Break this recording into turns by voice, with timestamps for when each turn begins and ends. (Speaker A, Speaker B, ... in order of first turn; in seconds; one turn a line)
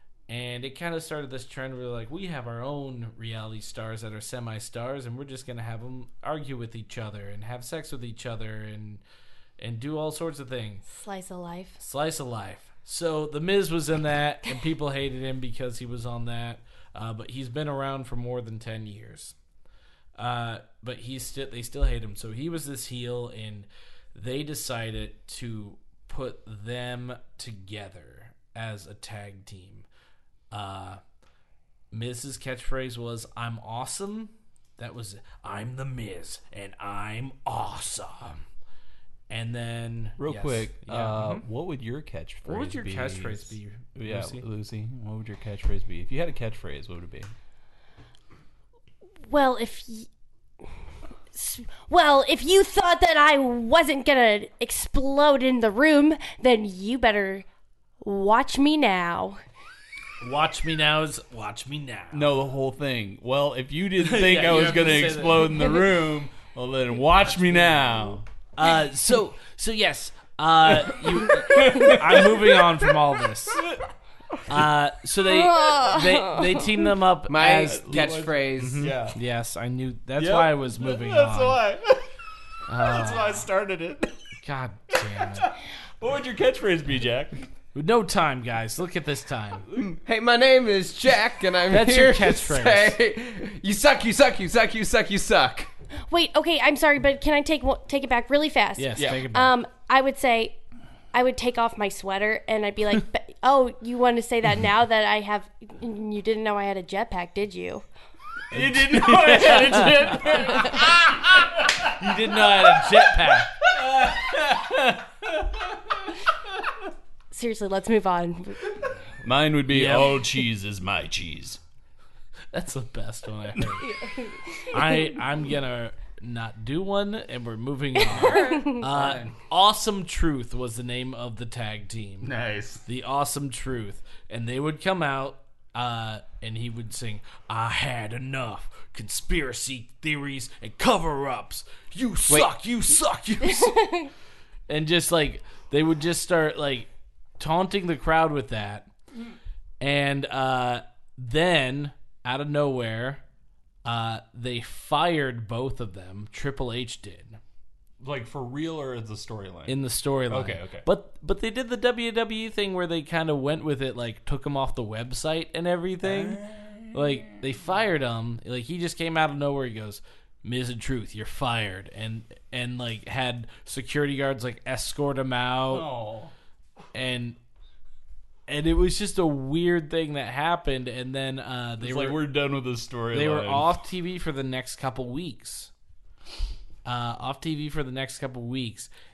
Speaker A: 0.3-9.0
Speaker A: 9.6-10.8
Speaker B: 10.9-11.8
Speaker A: 11.8-19.3
Speaker A: 20.2-29.9
Speaker A: 30.5-31.0
Speaker A: 31.9-38.4
Speaker A: 39.3-41.5
Speaker C: 40.2-47.3
Speaker A: 42.5-44.4
Speaker B: 49.2-50.1
Speaker B: 51.3-57.5
Speaker B: 58.0-59.4
Speaker A: 60.2-62.3
Speaker C: 62.1-68.2
Speaker A: 64.0-65.8
Speaker A: 67.2-67.9
Speaker A: 68.5-73.6
Speaker C: 70.7-72.9
Speaker C: 73.5-74.7
Speaker A: 74.5-81.6
Speaker B: 75.3-76.8
Speaker D: 77.3-78.9
Speaker C: 77.6-79.2
Speaker C: 80.2-82.1
Speaker A: 82.7-83.5
Speaker C: 82.7-84.1
Speaker A: 84.4-85.5
Speaker C: 84.9-87.5
Speaker A: 87.7-89.7
Speaker D: 89.8-95.7
Speaker A: 91.7-93.0
Speaker B: 96.1-100.6
Speaker A: 98.8-99.5
Speaker C: 99.0-99.2
Speaker B: 101.1-107.8
Speaker A: 108.5-110.6
Speaker C: 108.5-113.1
Speaker B: 110.2-110.8
Speaker A: 111.9-113.5
Speaker C: 113.7-116.0
Speaker B: 117.3-118.8
Speaker C: 119.2-121.6
Speaker A: 119.7-120.2
Speaker A: 122.5-123.9
Speaker B: 123.8-125.1
Speaker A: 124.6-132.3
Speaker C: 128.1-129.3
Speaker B: 128.1-128.8
Speaker C: 132.2-132.8
Speaker A: 132.8-143.9
Speaker B: 143.5-144.1
Speaker A: 144.7-148.9
Speaker A: 149.8-153.2
Speaker A: 153.8-157.4
Speaker C: 158.0-160.8
Speaker A: 159.7-166.4
Speaker C: 166.0-167.4
Speaker A: 166.9-175.8
Speaker C: 175.7-176.3
Speaker A: 176.9-177.4
Speaker A: 178.5-182.2
Speaker C: 181.8-183.7
Speaker A: 183.1-185.7
Speaker A: 186.8-188.9